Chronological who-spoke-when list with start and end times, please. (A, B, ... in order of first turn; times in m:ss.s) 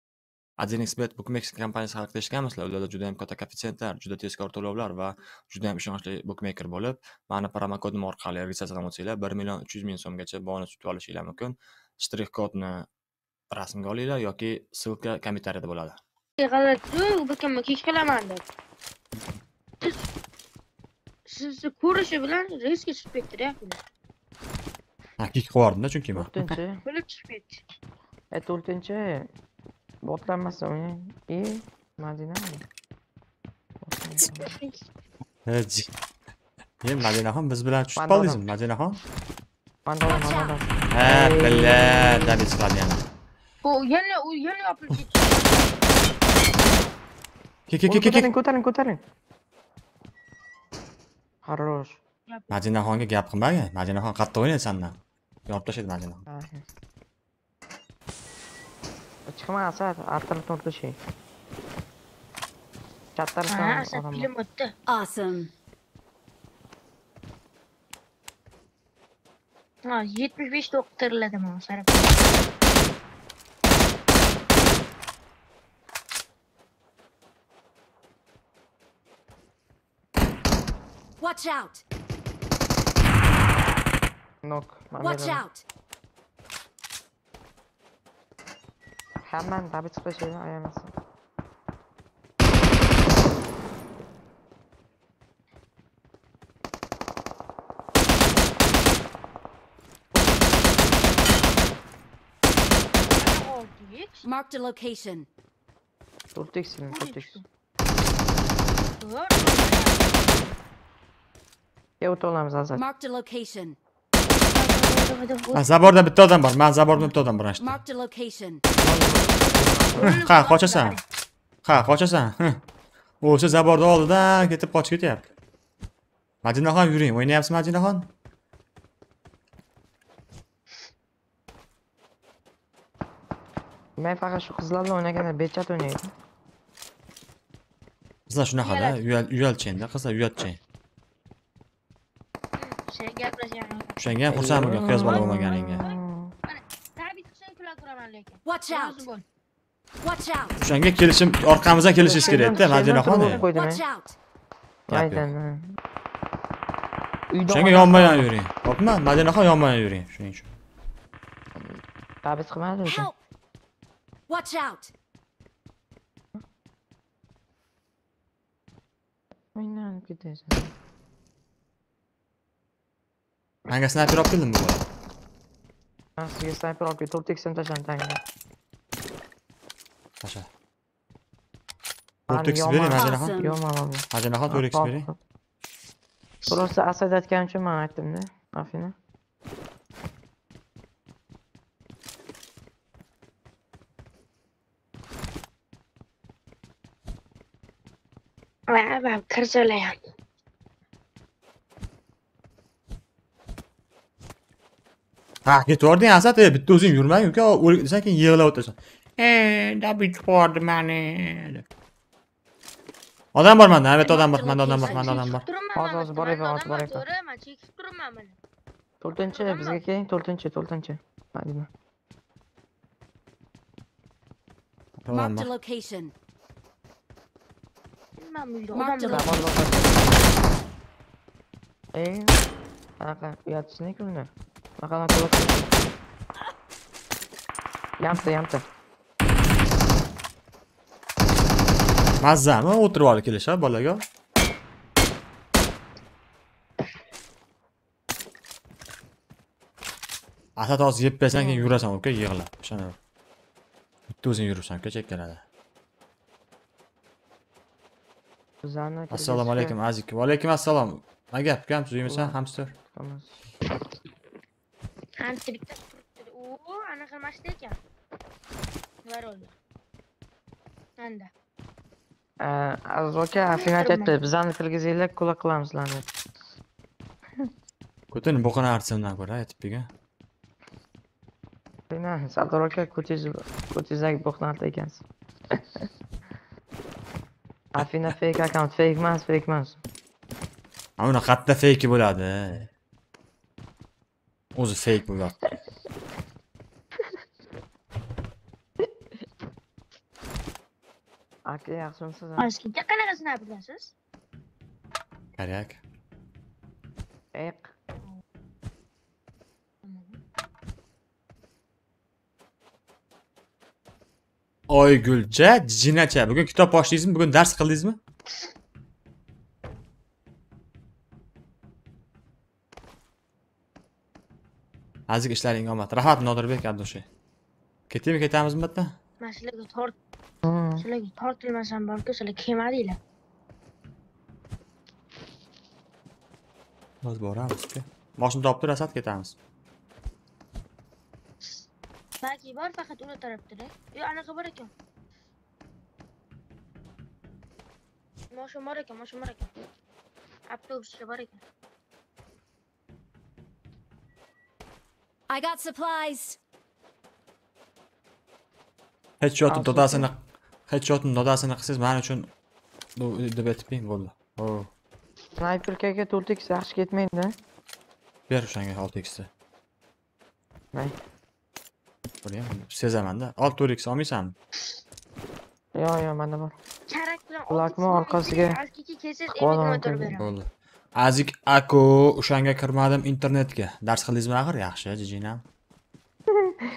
0:00.6-0:12.8 A
0:13.5-0:16.0 A
0:16.4-0:18.4 B
0:19.8-0:20.1 B
0:21.2-0:23.8 B
0:25.2-0:26.6 A
0:26.1-0:26.8 C
0:26.8-0:27.6 B
0:28.3-0:29.3 C
0:30.0-0:32.6 C
0:33.8-0:34.5 C
0:34.2-0:34.8 B
0:35.4-0:35.9 A
0:36.8-0:39.0 A
0:38.0-0:38.5 C
0:39.8-0:42.4 C
0:40.1-0:40.6 D
0:40.9-0:43.0 A
0:43.6-0:45.8 B
0:47.7-0:48.3 A
0:47.9-0:49.0 C
0:51.4-0:52.0 C
0:52.3-0:52.6 B
0:52.5-0:56.2 A
0:56.3-0:56.6 C
0:59.3-1:01.0 C
1:03.2-1:04.3 C
1:03.5-1:04.7 B
1:04.9-1:05.5 D
1:09.9-1:12.2 B
1:21.2-1:21.8 D
1:24.4-1:25.4 C
1:25.0-1:25.6 D
1:29.3-1:30.9 C
1:43.1-1:44.3 B
1:44.2-1:45.3 D
1:46.3-1:47.4 C
1:46.9-1:47.4 B
1:49.0-1:50.5 B
1:52.0-1:52.8 C
1:52.7-1:53.8 D
1:54.4-1:56.0 B
1:55.5-1:57.8 A
1:57.6-1:58.6 D
1:58.8-2:00.2 C
2:00.0-2:01.0 B
2:00.0-2:01.0 A
2:01.6-2:02.6 A
2:03.2-2:05.2 A
2:06.4-2:08.1 A
2:14.0-2:16.1 C
2:18.3-2:20.6 A
2:18.6-2:19.0 B
2:22.6-2:24.0 B
2:24.0-2:25.8 A
2:24.3-2:26.3 C
2:24.7-2:29.2 B
2:28.4-2:29.0 D
2:30.0-2:30.6 D
2:30.6-2:33.4 A
2:32.0-2:32.7 B
2:32.0-2:33.8 C
2:33.1-2:34.2 D
2:34.9-2:35.8 C
2:34.9-2:35.3 A
2:37.3-2:38.3 C
2:37.5-2:40.5 A
2:41.6-2:43.1 C
2:42.8-2:43.2 D
2:44.3-2:44.9 D
2:49.5-2:50.7 C
2:53.7-2:54.8 A
2:56.2-2:58.2 C
3:00.2-3:00.5 A
3:02.3-3:05.2 C
3:02.3-3:03.4 A
3:02.9-3:03.6 D
3:04.1-3:05.1 A
3:06.5-3:09.0 C
3:18.7-3:20.0 B
3:25.4-3:31.6 A
3:33.3-3:35.4 A
3:34.0-3:35.3 D
3:34.8-3:38.4 B
3:35.8-3:37.0 C
3:39.0-3:41.7 C
3:39.1-3:39.8 B
3:45.0-3:45.5 A
3:45.1-3:46.1 D
3:48.2-3:49.4 B
3:48.7-3:49.6 D
3:49.1-3:50.0 C
3:51.9-3:52.4 C
3:53.0-3:54.3 C
3:54.8-3:55.7 C
3:58.0-3:58.6 C
4:02.2-4:04.0 A
4:10.6-4:13.0 A
4:11.3-4:11.8 C
4:14.1-4:15.4 A
4:18.6-4:19.8 C
4:19.1-4:22.7 A
4:22.0-4:23.4 C
4:25.2-4:27.8 B
4:29.0-4:29.5 B
4:31.0-4:31.3 B
4:32.4-4:36.1 C
4:33.4-4:34.2 B
4:38.1-4:39.9 A
4:41.9-4:45.0 C
4:45.6-4:45.8 C
4:47.7-4:49.8 C
4:51.0-4:52.7 A
4:54.5-4:55.5 A
5:01.4-5:02.5 C
5:02.4-5:03.9 B
5:05.4-5:05.8 A
5:07.3-5:07.7 C
5:09.8-5:10.2 B
5:14.7-5:18.0 A
5:25.1-5:27.1 A
5:27.9-5:29.0 A
5:29.2-5:29.9 B
5:30.4-5:30.8 C
5:30.8-5:33.0 B
5:37.0-5:39.4 A
5:42.2-5:44.7 B
5:48.3-5:49.5 B
5:50.5-5:51.4 B
5:55.3-5:56.4 D
5:59.2-6:02.3 A
5:59.5-6:00.1 C
6:03.0-6:04.7 A
6:05.4-6:07.3 C
6:08.3-6:09.3 A
6:12.2-6:14.3 A
6:15.7-6:16.5 C
6:16.9-6:20.3 B
6:17.5-6:18.6 C
6:19.3-6:20.2 C
6:20.1-6:25.4 A